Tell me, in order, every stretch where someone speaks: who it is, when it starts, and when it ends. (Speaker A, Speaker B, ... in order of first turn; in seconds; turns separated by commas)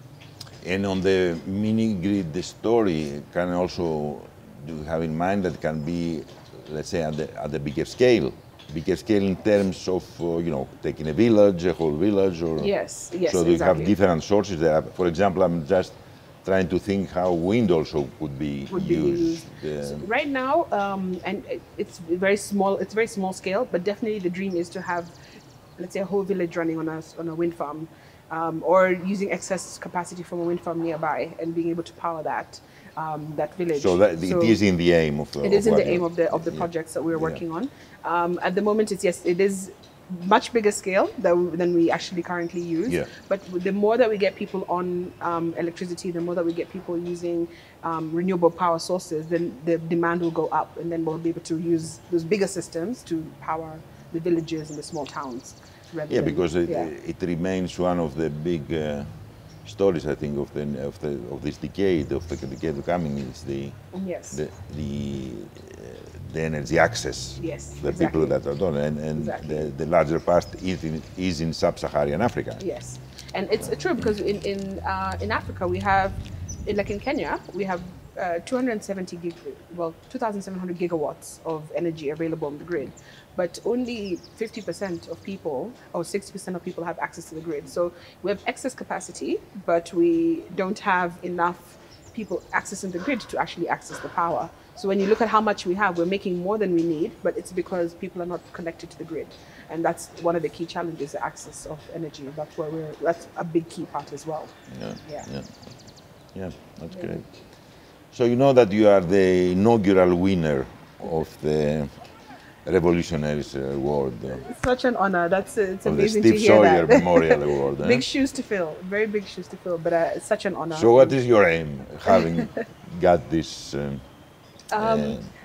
Speaker A: 0.6-12.7, Speaker B: 12.6-13.9, Speaker A: 13.3-20.1, Speaker B: 18.7-25.1, Speaker B: 25.8-34.6, Speaker A: 33.7-37.4, Speaker B: 35.4-56.9, Speaker A: 56.1-59.1, Speaker A: 59.6-63.8, Speaker B: 63.9-64.4, Speaker A: 64.3-72.6, Speaker B: 67.4-68.4, Speaker B: 69.2-69.8, Speaker B: 72.6-104.5, Speaker A: 104.7-105.6, Speaker B: 105.0-105.3, Speaker A: 106.3-107.2, Speaker B: 106.9-107.2, Speaker A: 108.1-112.0, Speaker A: 112.7-114.5, Speaker B: 114.3-121.2, Speaker A: 115.8-118.0, Speaker A: 120.8-124.0, Speaker B: 122.1-122.5, Speaker B: 124.7-125.2, Speaker A: 124.8-125.3